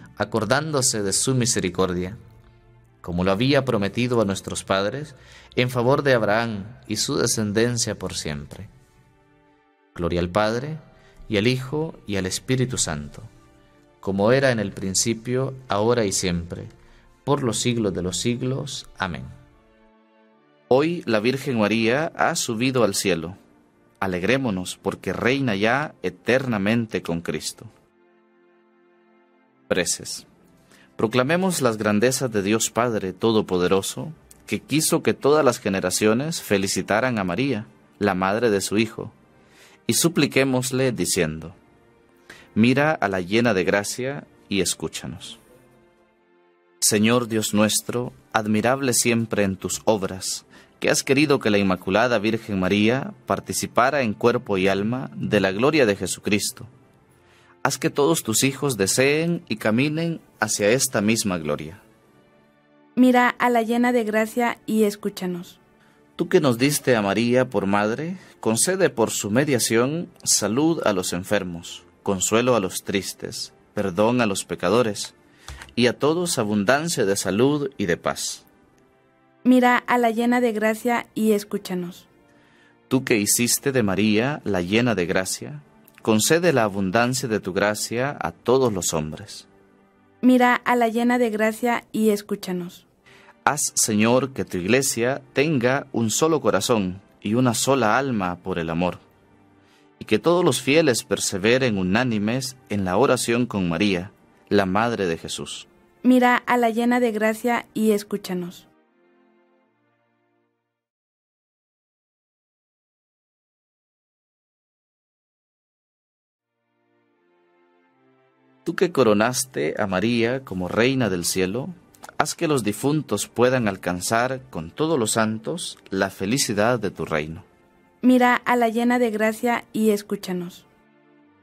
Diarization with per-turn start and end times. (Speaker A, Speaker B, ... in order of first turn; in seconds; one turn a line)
Speaker A: 0.2-2.2
Speaker A: 3.0-8.7
Speaker A: 9.9-13.3
Speaker A: 14.0-16.7
Speaker A: 17.2-19.3
Speaker A: 20.7-23.4
Speaker A: 24.0-27.7
Speaker A: 29.7-30.3
Speaker A: 31.0-39.1
Speaker A: 39.9-41.6
Speaker A: 42.5-45.4
Speaker A: 46.8-56.7
Speaker A: 57.6-61.8
Speaker B: 63.0-65.6
Speaker A: 66.2-75.2
Speaker A: 75.8-78.5
Speaker B: 79.5-82.1
Speaker A: 82.9-89.5
Speaker B: 90.2-92.8
Speaker A: 93.5-99.0
Speaker A: 100.0-105.7
Speaker B: 106.0-108.7
Speaker A: 118.7-127.5
Speaker B: 128.0-130.7